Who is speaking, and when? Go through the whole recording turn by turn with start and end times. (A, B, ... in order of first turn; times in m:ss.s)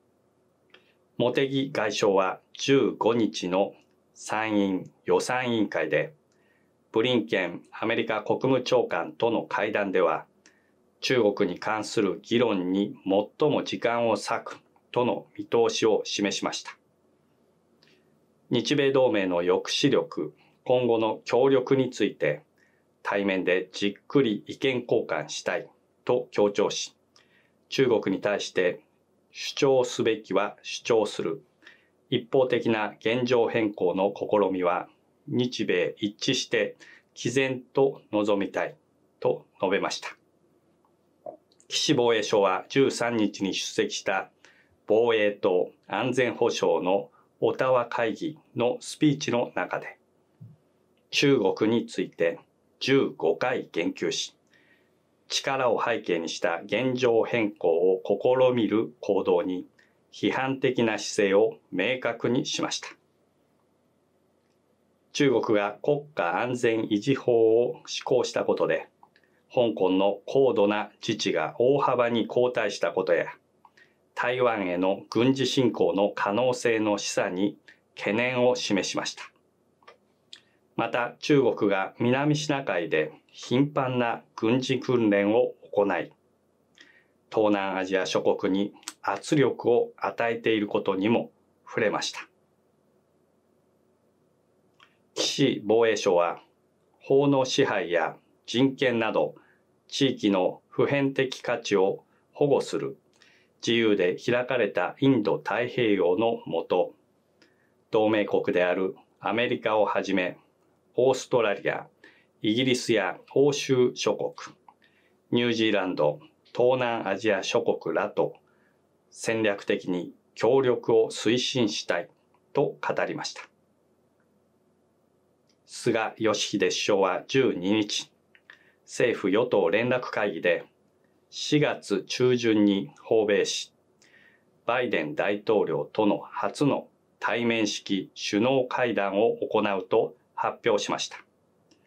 0:01.2-0:06.2 A
0:06.9-0:10.3 A
0:11.0-0:16.8 A
0:18.5-0:22.4 A
0:23.0-0:27.0 A
0:27.7-0:31.4 A
0:32.1-0:40.2 A
0:41.7-0:44.3 A
0:44.9-0:50.0 A
0:51.1-0:54.4 A
0:55.3-1:02.9 A
1:05.1-1:08.9 A
1:09.5-1:13.4 A
1:14.1-1:19.3 A
1:20.8-1:26.1 A
1:27.3-1:32.3 A
1:35.1-1:36.4 A
1:37.0-1:43.0 A
1:43.6-1:47.0 A
1:47.9-1:50.4 A
1:50.9-1:51.9 A
1:52.4-1:54.5 A
1:55.3-1:58.4 A
1:59.1-2:03.5 A
2:05.6-2:08.1 A
2:08.9-2:10.7 A
2:11.3-2:13.7 A
2:14.6-2:21.2 A